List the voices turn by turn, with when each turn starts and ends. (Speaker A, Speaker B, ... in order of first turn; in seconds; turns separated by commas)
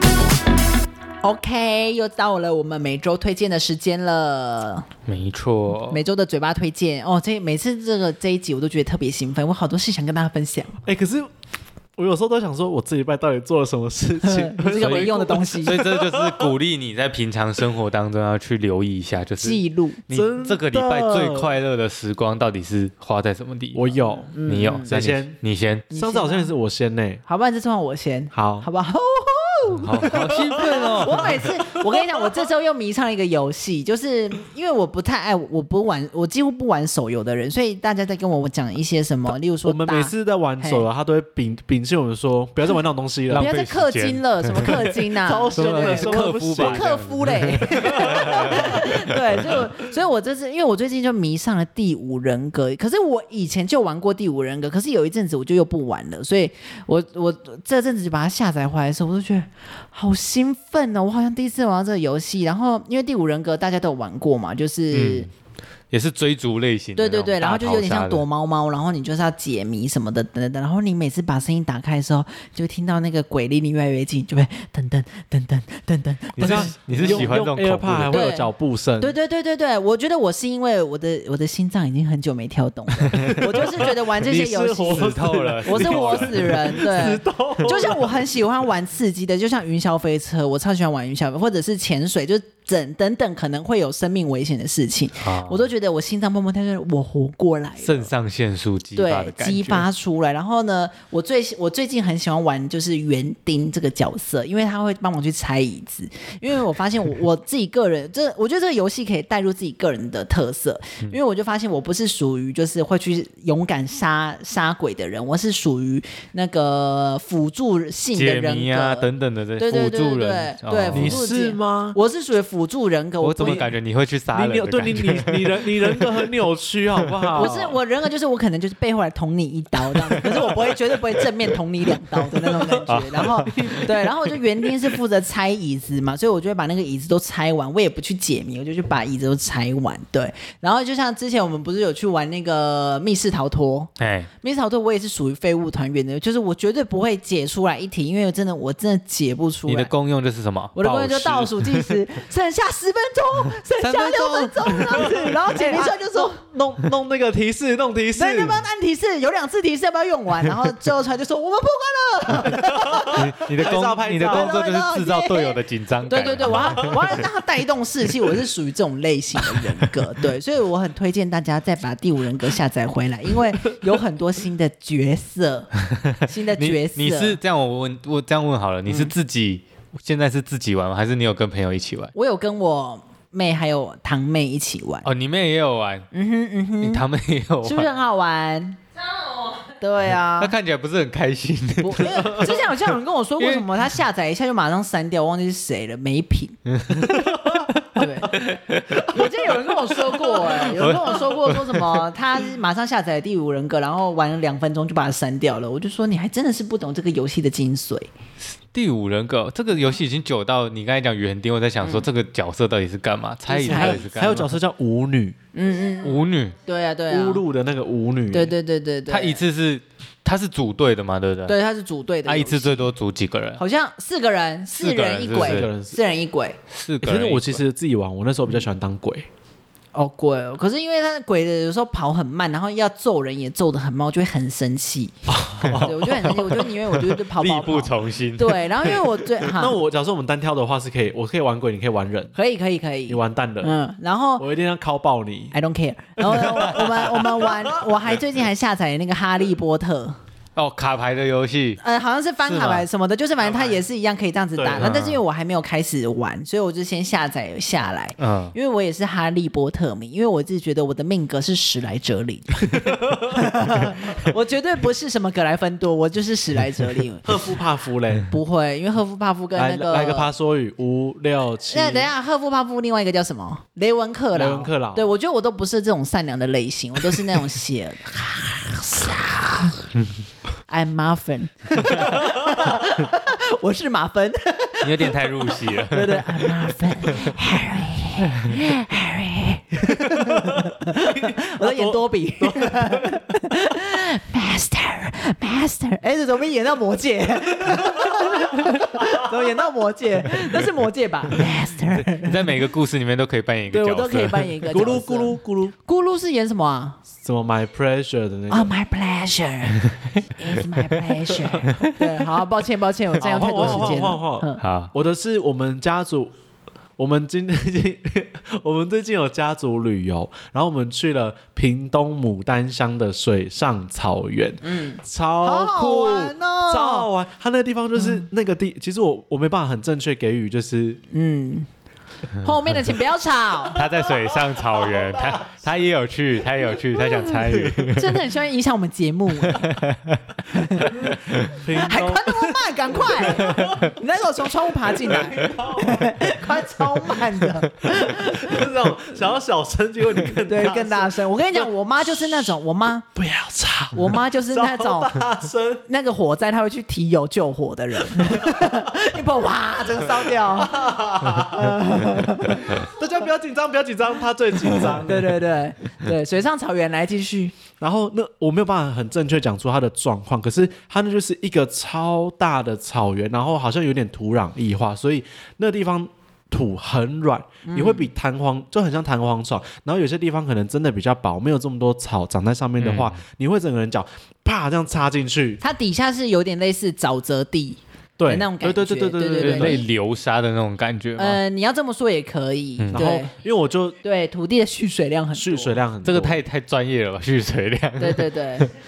Speaker A: 1.2-4.9, Speaker B: 5.1-6.0, Speaker A: 5.9-10.8, Speaker C: 10.8-11.3, Speaker C: 12.0-16.5, Speaker A: 14.2-15.8, Speaker B: 14.7-23.9, Speaker A: 19.4-20.0, Speaker C: 20.1-21.6, Speaker C: 23.7-25.4, Speaker A: 24.1-24.9, Speaker B: 24.4-25.9, Speaker A: 25.9-26.5, Speaker C: 25.9-27.2, Speaker A: 27.2-40.9, Speaker C: 28.3-28.7, Speaker C: 29.8-31.9, Speaker B: 29.8-31.4, Speaker C: 39.6-43.5, Speaker B: 43.3-48.8, Speaker A: 43.3-65.3, Speaker C: 45.1-46.9, Speaker C: 47.8-48.8, Speaker B: 64.9-65.3, Speaker B: 65.9-68.2, Speaker A: 67.0-77.4, Speaker B: 76.3-78.2, Speaker C: 76.4-79.1, Speaker A: 78.1-98.1, Speaker C: 83.2-88.2, Speaker B: 84.8-86.8, Speaker B: 95.2-95.7, Speaker B: 97.8-99.8, Speaker A: 99.0-123.7, Speaker B: 118.1-121.2, Speaker C: 120.9-122.0, Speaker B: 123.2-126.3, Speaker C: 123.4-123.7, Speaker C: 124.3-127.8, Speaker B: 127.1-127.4, Speaker A: 127.3-149.9, Speaker B: 132.8-133.9, Speaker C: 133.5-133.9, Speaker B: 144.0-144.3, Speaker B: 149.7-152.0, Speaker A: 150.7-156.4, Speaker B: 153.8-155.5, Speaker C: 154.9-158.6, Speaker A: 158.1-163.2, Speaker B: 163.1-167.2, Speaker C: 163.5-164.5, Speaker A: 164.2-175.7, Speaker C: 166.5-167.0, Speaker B: 176.1-182.1, Speaker A: 176.2-177.4, Speaker A: 178.9-179.1, Speaker A: 182.1-185.1, Speaker B: 185.0-186.1, Speaker A: 186.1-187.0, Speaker B: 186.8-187.9, Speaker A: 187.6-188.8, Speaker A: 189.7-190.5, Speaker B: 190.4-192.6, Speaker A: 191.8-196.6, Speaker C: 192.2-192.6, Speaker B: 193.4-193.7, Speaker B: 196.7-197.3, Speaker C: 197.0-197.7, Speaker A: 197.9-198.3, Speaker B: 197.9-199.1, Speaker A: 199.0-208.1, Speaker C: 199.4-200.8, Speaker B: 200.5-202.1, Speaker B: 208.6-214.6, Speaker A: 211.8-212.1, Speaker A: 213.5-214.0, Speaker C: 213.6-215.3, Speaker A: 215.5-217.4, Speaker B: 216.0-216.6, Speaker C: 217.1-218.5, Speaker A: 218.3-219.4, Speaker B: 219.1-221.6, Speaker A: 221.4-222.9, Speaker B: 222.2-223.6, Speaker A: 223.6-226.6, Speaker B: 224.8-225.7, Speaker C: 225.3-226.0, Speaker B: 226.7-227.6, Speaker C: 227.0-229.3, Speaker A: 229.9-239.8, Speaker C: 235.3-236.5, Speaker B: 235.6-239.2, Speaker C: 239.4-242.3, Speaker A: 242.3-244.4, Speaker C: 243.1-243.8, Speaker C: 244.4-245.5, Speaker A: 245.5-250.2, Speaker C: 246.2-247.6, Speaker B: 250.6-251.8, Speaker A: 251.8-267.5, Speaker B: 252.4-252.8, Speaker C: 254.6-254.9, Speaker B: 254.8-255.2, Speaker B: 258.2-258.5, Speaker C: 262.9-263.1, Speaker C: 267.2-268.3, Speaker A: 268.3-270.3, Speaker C: 269.5-272.1, Speaker A: 271.7-279.8, Speaker C: 274.3-275.1, Speaker A: 280.7-302.6, Speaker B: 284.8-286.5, Speaker C: 290.1-293.2, Speaker B: 301.9-304.6, Speaker A: 303.7-307.0, Speaker C: 304.7-305.7, Speaker C: 307.2-308.7, Speaker A: 308.5-314.6, Speaker C: 313.2-316.3, Speaker B: 313.6-313.9, Speaker B: 314.6-314.9, Speaker C: 317.0-331.0, Speaker A: 324.6-327.1, Speaker A: 328.0-328.2, Speaker A: 331.1-331.7, Speaker A: 332.4-333.8, Speaker B: 333.7-338.2, Speaker C: 334.4-335.2, Speaker C: 337.4-337.7, Speaker A: 337.9-339.6, Speaker B: 339.4-340.2, Speaker A: 340.4-341.1, Speaker B: 341.3-341.6, Speaker C: 341.5-343.9, Speaker A: 341.7-348.7, Speaker C: 344.9-346.3, Speaker C: 347.8-352.5, Speaker A: 350.4-353.1, Speaker C: 353.1-355.8, Speaker A: 353.9-355.2, Speaker A: 355.9-362.8, Speaker C: 358.2-358.6, Speaker C: 359.9-361.7, Speaker C: 362.6-365.4, Speaker A: 364.8-367.5, Speaker C: 367.8-385.6, Speaker A: 377.6-378.1, Speaker B: 382.8-383.2, Speaker A: 385.6-389.9, Speaker C: 388.2-389.8, Speaker B: 389.4-391.4, Speaker A: 391.1-393.3, Speaker B: 392.8-393.1, Speaker C: 392.9-394.0, Speaker A: 394.0-395.8, Speaker C: 395.3-396.4, Speaker B: 396.0-398.7, Speaker A: 398.0-398.7